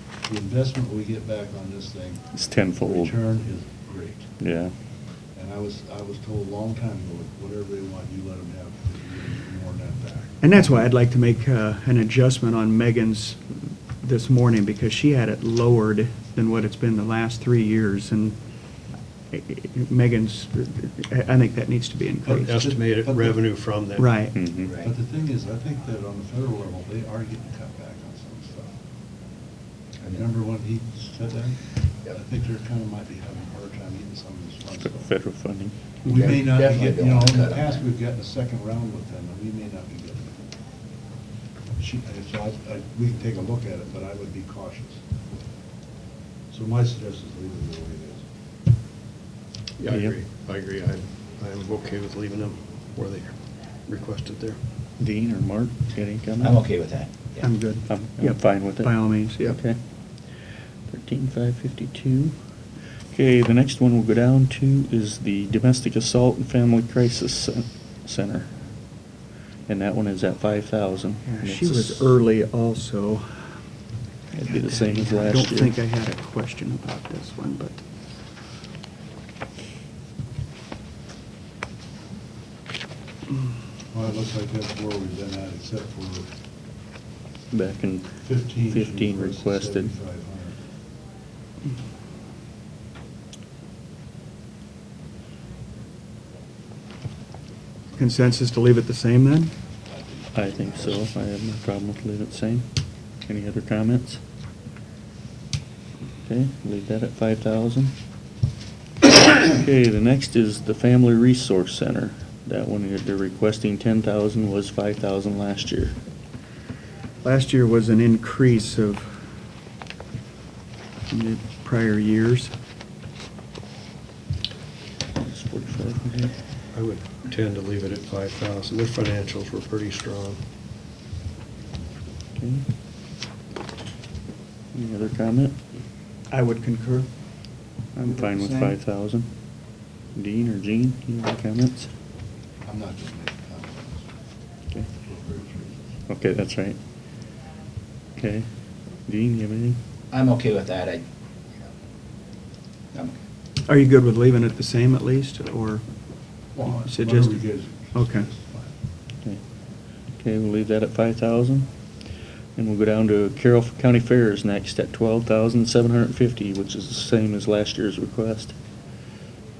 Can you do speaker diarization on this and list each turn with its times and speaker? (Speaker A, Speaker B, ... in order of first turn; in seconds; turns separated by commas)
Speaker A: 0.2-2.3, Speaker B: 2.3-3.1, Speaker A: 2.8-4.3, Speaker B: 4.4-4.7, Speaker A: 5.3-10.3, Speaker C: 10.4-13.4, Speaker C: 14.0-18.4, Speaker C: 19.3-22.5, Speaker A: 22.2-23.4, Speaker D: 22.3-24.2, Speaker C: 23.9-24.4, Speaker B: 24.3-24.7, Speaker E: 24.5-24.9, Speaker A: 24.8-28.7, Speaker A: 30.1-35.1, Speaker B: 34.8-35.8, Speaker A: 36.0-40.5, Speaker E: 36.0-37.9, Speaker A: 41.8-45.0, Speaker A: 46.5-48.2, Speaker D: 49.8-54.6, Speaker B: 49.9-50.2, Speaker B: 55.0-56.6, Speaker E: 56.4-57.5, Speaker C: 57.4-59.6, Speaker B: 57.9-59.8, Speaker B: 60.9-62.3, Speaker B: 63.1-68.5, Speaker B: 69.7-72.1, Speaker C: 71.2-73.6, Speaker B: 74.3-75.8, Speaker C: 74.5-77.8, Speaker A: 83.9-86.3, Speaker B: 87.5-89.9, Speaker A: 88.2-90.6, Speaker C: 98.0-99.5, Speaker B: 100.3-102.7, Speaker B: 103.2-104.2, Speaker B: 106.2-107.9, Speaker B: 109.4-116.0, Speaker C: 117.2-119.2, Speaker C: 121.1-122.5, Speaker B: 125.2-126.3, Speaker D: 126.7-130.4, Speaker B: 132.3-132.6, Speaker B: 134.7-135.6, Speaker C: 136.3-137.1, Speaker B: 137.9-139.3, Speaker C: 138.0-138.7, Speaker B: 140.1-141.9, Speaker A: 142.7-144.1, Speaker A: 145.0-145.9, Speaker B: 146.1-146.8, Speaker B: 148.2-148.5, Speaker B: 149.1-149.8, Speaker E: 150.1-151.0, Speaker C: 153.7-155.8, Speaker A: 156.5-158.7, Speaker C: 156.7-157.4, Speaker C: 157.9-158.3, Speaker B: 160.2-161.7, Speaker B: 162.6-168.6